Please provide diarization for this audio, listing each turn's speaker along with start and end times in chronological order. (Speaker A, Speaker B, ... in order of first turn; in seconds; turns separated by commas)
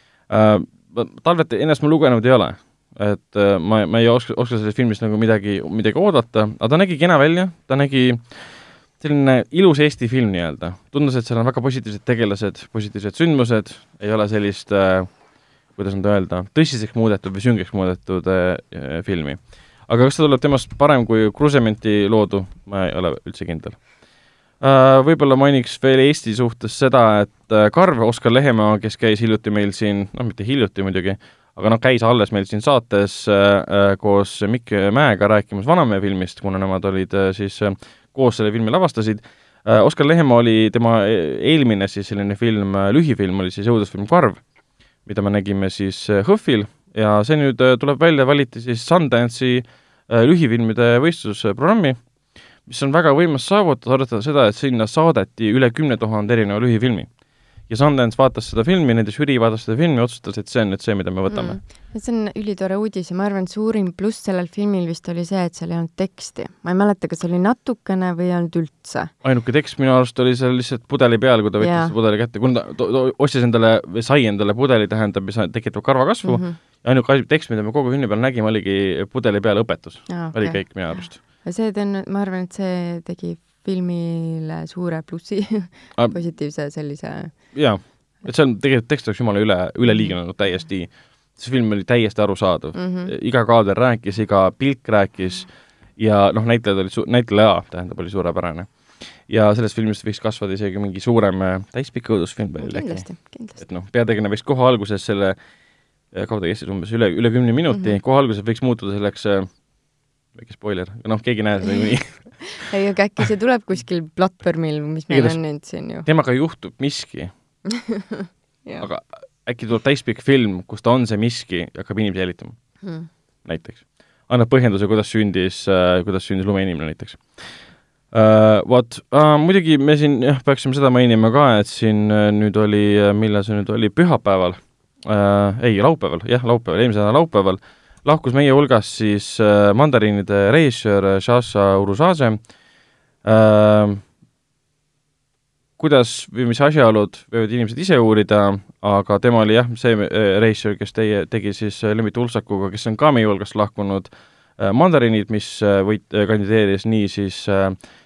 Speaker A: 0.3-15.1, Speaker A: 15.7-23.8, Speaker A: 24.6-44.4, Speaker A: 45.0-52.0, Speaker A: 52.7-57.1, Speaker A: 57.7-61.6, Speaker B: 61.3-69.1, Speaker A: 69.2-81.2, Speaker B: 71.6-71.9, Speaker B: 76.2-76.6, Speaker B: 80.1-87.4, Speaker A: 87.5-98.7, Speaker B: 89.9-90.1, Speaker B: 92.7-93.1, Speaker A: 99.3-105.4, Speaker B: 102.6-103.6, Speaker A: 106.1-109.5, Speaker B: 107.7-108.0, Speaker A: 110.3-112.6, Speaker B: 111.6-116.0, Speaker A: 115.1-115.4, Speaker A: 116.0-117.3, Speaker B: 117.7-118.8, Speaker A: 118.8-122.6, Speaker B: 122.8-123.1, Speaker A: 123.4-127.4, Speaker A: 128.1-142.4, Speaker A: 143.2-144.0, Speaker A: 145.8-157.8